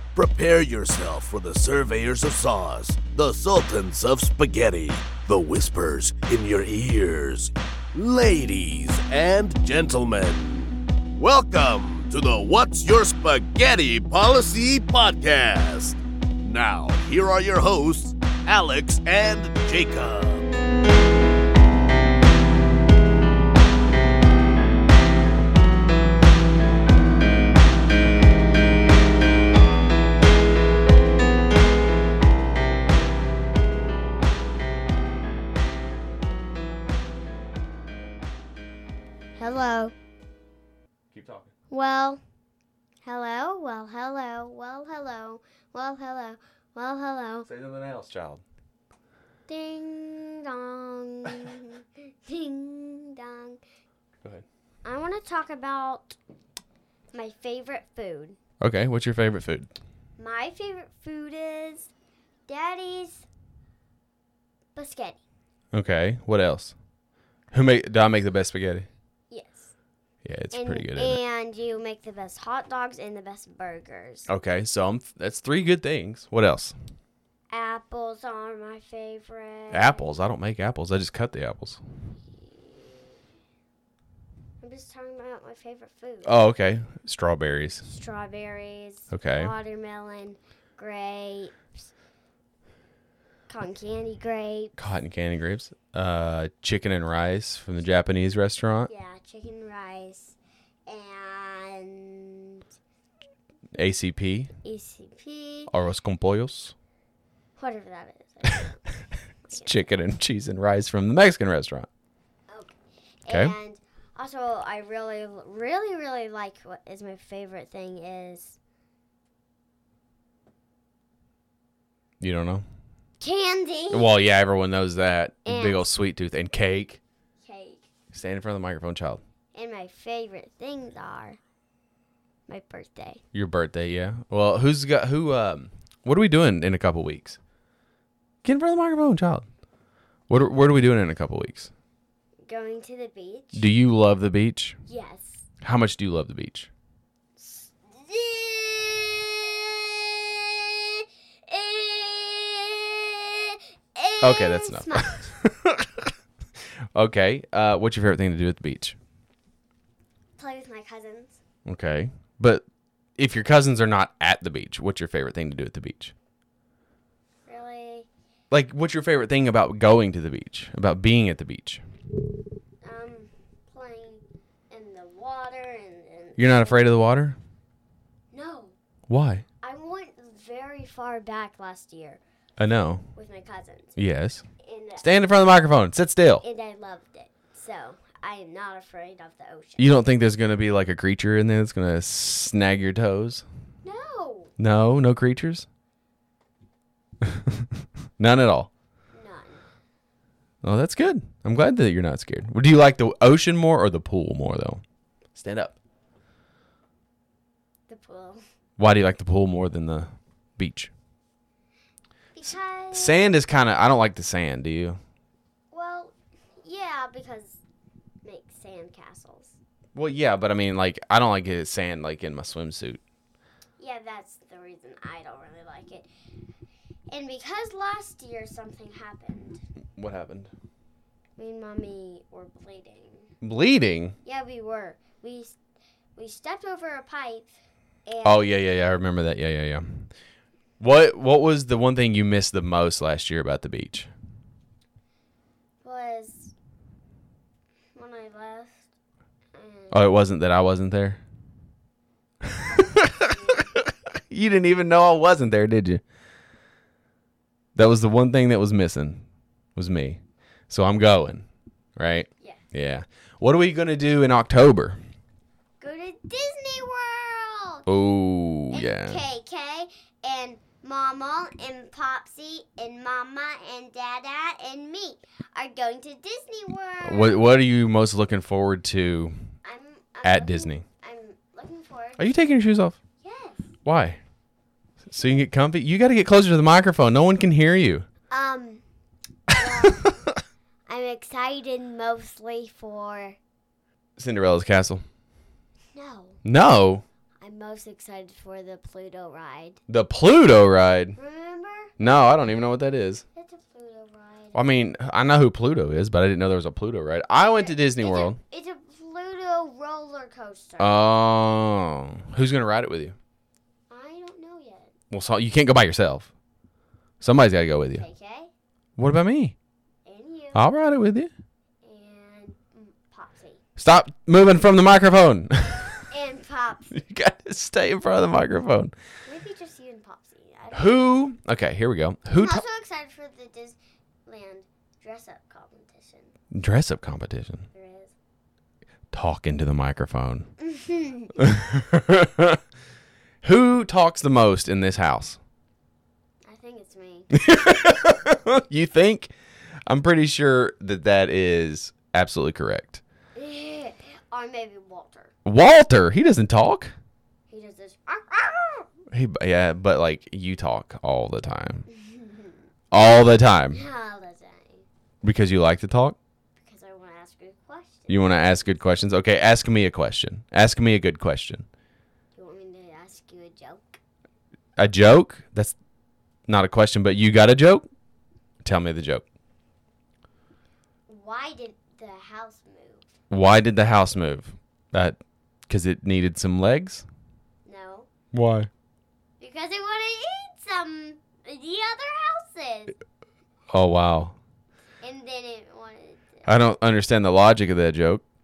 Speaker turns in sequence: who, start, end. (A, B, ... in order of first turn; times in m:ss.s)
0:00.2-0:20.4 A
0:39.4-0:39.9 B
0:41.1-0:41.5 C
0:41.7-0:42.2 B
0:43.0-0:47.5 B
0:47.5-0:48.4 C
0:49.5-0:53.6 B
0:54.8-0:56.2 B
0:57.1-0:58.4 B
0:58.6-0:59.7 C
1:00.2-1:01.9 B
1:02.5-1:03.3 B
1:04.8-1:05.2 B
1:05.7-1:06.7 C
1:07.5-1:08.9 C
1:09.3-1:09.7 B
1:10.2-1:11.2 C
1:10.5-1:14.3 B
1:14.3-1:16.8 C
1:17.5-1:20.1 B
1:19.7-1:21.8 C
1:22.3-1:23.2 B
1:24.6-1:26.4 B
1:26.2-1:27.8 C
1:27.8-1:31.8 B
1:29.1-1:29.5 C
1:33.5-1:34.8 B
1:34.8-1:38.9 C
1:38.9-1:40.4 B
1:40.9-1:42.6 B
1:43.8-1:44.5 C
1:44.6-1:45.7 B
1:45.7-1:46.7 C
1:47.6-1:48.9 B
1:49.4-1:49.7 B
1:49.5-1:51.9 C
1:52.5-1:58.6 B
2:02.2-2:02.6 C
2:03.2-2:04.1 B
2:03.9-2:07.0 C
2:05.4-2:05.9 B
2:07.4-2:07.9 B
2:08.1-2:09.2 C
2:09.5-2:11.4 B
2:12.5-2:13.2 B
2:13.3-2:17.4 C
2:18.4-2:19.5 C
2:20.3-2:21.7 C
2:22.5-2:23.7 B
2:23.5-2:24.8 C
2:24.9-2:25.4 B
2:25.6-2:26.7 C
2:27.4-2:35.4 B
2:34.2-2:36.1 C
2:37.0-2:39.0 C
2:40.4-2:41.4 B
2:41.7-2:42.6 C
2:43.2-2:46.1 C
2:47.5-2:48.1 B
2:48.5-2:51.8 C
2:52.8-2:57.0 B
2:56.4-2:57.4 C
2:58.3-2:58.8 B
2:59.1-2:59.4 C
2:59.6-3:02.2 B
3:02.6-3:03.0 C
3:03.2-3:04.0 B
3:04.0-3:04.5 C
3:04.6-3:05.1 B
3:05.0-3:06.4 C
3:06.4-3:10.0 B
3:09.8-3:13.4 C
3:13.8-3:14.5 B
3:14.6-3:15.6 C
3:17.2-3:17.7 C
3:18.2-3:18.7 C
3:19.1-3:19.6 B
3:20.6-3:24.8 C
3:25.4-3:25.8 C
3:27.9-3:28.4 B
3:28.8-3:30.9 C
3:32.4-3:33.4 B
3:32.9-3:35.0 C
3:35.7-3:37.6 B
3:38.2-3:39.6 B
3:40.0-3:43.0 C
3:43.8-3:46.1 B
3:47.1-3:49.6 B
3:50.0-3:50.5 C
3:51.4-3:53.3 B
3:53.4-3:54.2 C
3:54.2-3:55.6 B
3:56.2-3:57.5 B
3:58.0-3:58.5 B
3:58.2-4:00.1 C
4:00.8-4:04.1 C
4:05.8-4:06.5 B
4:08.0-4:08.9 B
4:09.5-4:10.1 B
4:09.9-4:11.2 C
4:12.4-4:16.0 C
4:12.6-4:13.7 B
4:17.8-4:19.2 C
4:19.8-4:21.5 C
4:22.0-4:25.0 C
4:22.4-4:22.6 B
4:25.8-4:27.9 B
4:27.9-4:29.2 C
4:28.7-4:37.5 B
4:37.0-4:39.4 C
4:39.6-4:42.2 B
4:40.2-4:40.8 C
4:42.2-4:43.0 C
4:43.2-4:43.7 B
4:43.8-4:44.2 C
4:45.1-4:48.1 C
4:48.3-4:48.8 B
4:49.5-4:50.2 B
4:50.9-4:53.4 B
4:54.2-4:55.0 C
4:55.9-4:56.4 B
4:56.4-4:57.0 C
4:57.4-4:59.8 B
4:59.9-5:01.2 C
5:01.2-5:01.9 B
5:02.0-5:03.2 C
5:03.3-5:04.6 B
5:04.6-5:08.4 C
5:07.4-5:11.0 B
5:10.8-5:13.2 C
5:13.9-5:14.9 B
5:15.1-5:16.3 C
5:17.2-5:18.0 C
5:18.0-5:18.5 B
5:19.0-5:19.6 C
5:20.0-5:20.6 B
5:20.5-5:21.3 C
5:21.8-5:23.6 B
5:23.8-5:26.1 C
5:26.1-5:26.9 B
5:26.9-5:28.9 C
5:29.3-5:31.0 B
5:30.7-5:32.6 C
5:32.3-5:36.4 B
5:36.5-5:37.7 C
5:37.7-5:38.1 B
5:39.1-5:40.5 C
5:40.6-5:41.4 B
5:41.4-5:42.6 C
5:43.4-5:45.4 C
5:46.5-5:47.3 B
5:47.3-5:49.3 C
5:49.9-5:53.0 C
5:53.4-5:55.3 B
5:55.4-5:57.0 C
5:57.5-5:58.9 B
5:59.1-6:01.9 C
6:01.9-6:02.6 B
6:02.9-6:03.8 C
6:03.7-6:04.9 B
6:05.2-6:06.2 C
6:06.6-6:08.8 B
6:08.1-6:11.6 C
6:12.3-6:14.0 B
6:14.8-6:15.8 C
6:16.5-6:17.9 C
6:18.6-6:19.2 C
6:21.1-6:23.1 B
6:23.3-6:27.0 C
6:27.7-6:28.1 B
6:28.3-6:28.7 C
6:29.4-6:33.0 B
6:33.7-6:34.4 C
6:35.0-6:36.5 B
6:36.5-6:38.2 C